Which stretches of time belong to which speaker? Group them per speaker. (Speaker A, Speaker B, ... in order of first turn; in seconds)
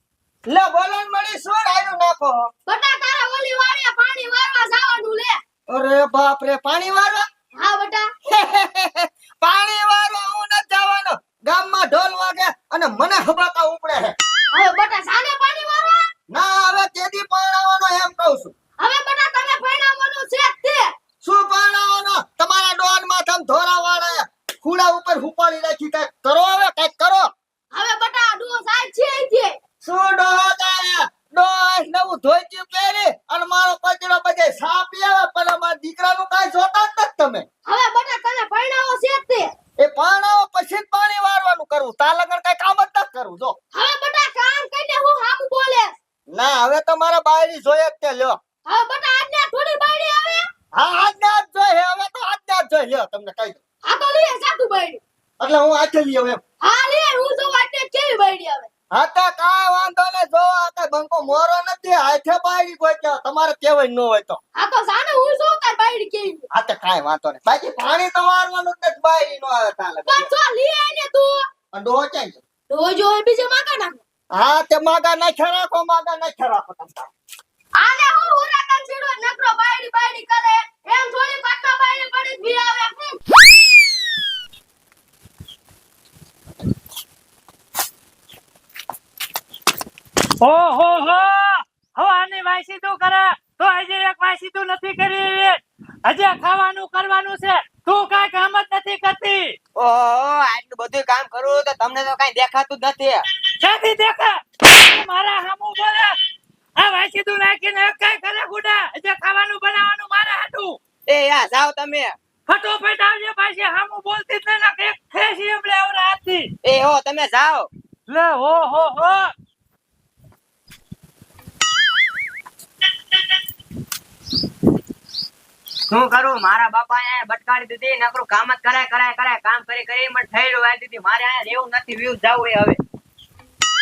Speaker A: 0.5-2.5, 5.7-7.2, 8.3-14.2, 16.3-18.5, 21.2-27.3, 29.8-37.5, 39.8-43.6, 46.3-48.4, 50.7-53.6, 55.4-56.4, 58.9-64.4, 66.5-70.3, 71.7-72.4, 74.3-77.1
Speaker B: 2.7-5.4, 7.6-8.1, 14.5-16.0, 18.8-20.9, 27.7-29.6, 37.7-39.5, 43.7-46.0, 48.7-50.4, 53.9-55.0, 56.6-58.7, 64.6-66.5, 70.1-71.4, 72.7-74.0, 77.8-83.2
Speaker C: 90.4-99.5, 103.6-106.2, 106.8-110.8, 112.5-116.5, 118.1-119.3
Speaker D: 99.8-103.2, 111.1-112.2, 116.6-117.7, 125.9-132.8